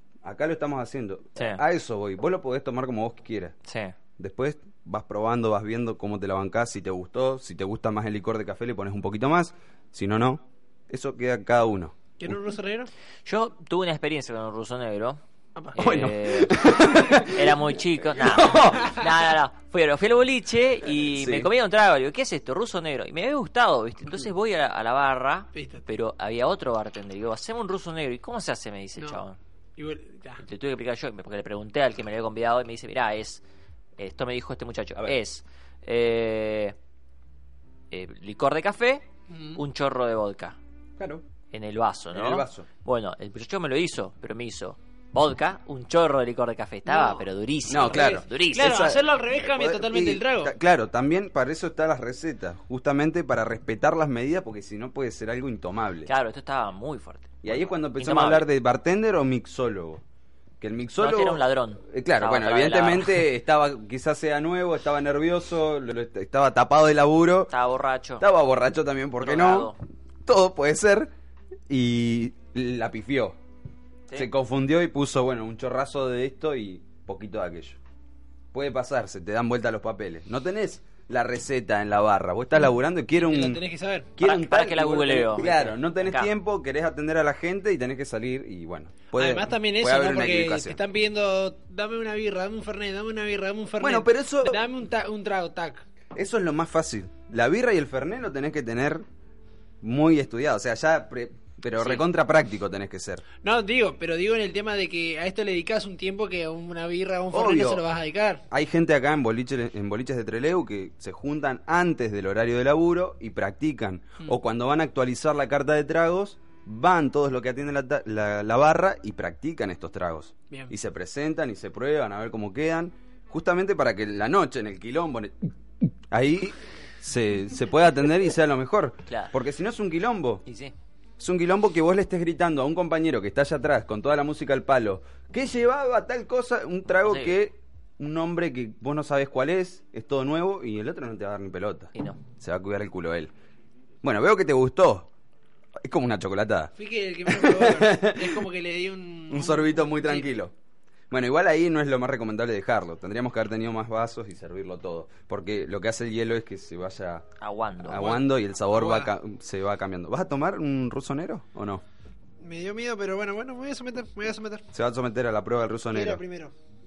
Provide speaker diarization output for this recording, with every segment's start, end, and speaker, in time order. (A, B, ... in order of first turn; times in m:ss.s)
0:00.2-0:03.6 A
0:03.6-0:03.9 B
0:04.2-0:12.4 A
0:12.2-0:12.9 C
0:13.2-0:15.2 B
0:15.7-0:29.4 B
0:15.8-0:17.6 A
0:18.1-0:19.0 A
0:21.0-0:21.5 A
0:25.5-0:25.8 C
0:29.0-0:29.2 C
0:29.8-0:30.4 C
0:30.4-0:33.4 B
0:34.0-0:36.8 B
0:37.9-0:39.0 B
0:39.3-0:39.6 C
0:39.6-0:40.6 B
0:41.5-0:48.8 B
0:42.1-0:42.7 A
0:46.8-0:47.2 C
0:47.7-0:56.1 A
0:47.9-0:50.5 C
0:56.0-0:58.4 B
0:57.4-1:00.0 A
1:00.6-1:07.5 A
1:01.0-1:03.2 B
1:07.5-1:08.2 B
1:08.2-1:09.7 A
1:09.2-1:09.8 B
1:10.2-1:11.1 A
1:11.7-1:13.4 A
1:14.1-1:17.8 A
1:18.5-1:23.6 A
1:23.1-1:24.1 C
1:24.2-1:30.8 A
1:24.2-1:26.3 B
1:29.2-1:35.8 C
1:33.8-1:34.6 A
1:36.1-1:39.0 A
1:39.8-1:43.2 A
1:41.8-1:42.0 B
1:43.4-1:48.4 C
1:47.3-1:47.8 A
1:48.5-2:05.3 A
2:06.1-2:10.4 A
2:10.4-2:10.7 B
2:11.2-2:23.3 A
2:17.0-2:17.4 B
2:21.9-2:22.2 B
2:24.0-2:25.1 A
2:25.8-2:26.7 A
2:26.8-2:30.3 C
2:27.3-2:28.4 A
2:29.3-2:30.5 A
2:31.1-2:37.3 A
2:37.4-2:38.0 B
2:37.8-2:41.8 A
2:37.9-2:39.1 C
2:42.4-2:44.6 C
2:44.7-2:46.2 A
2:45.9-2:46.5 C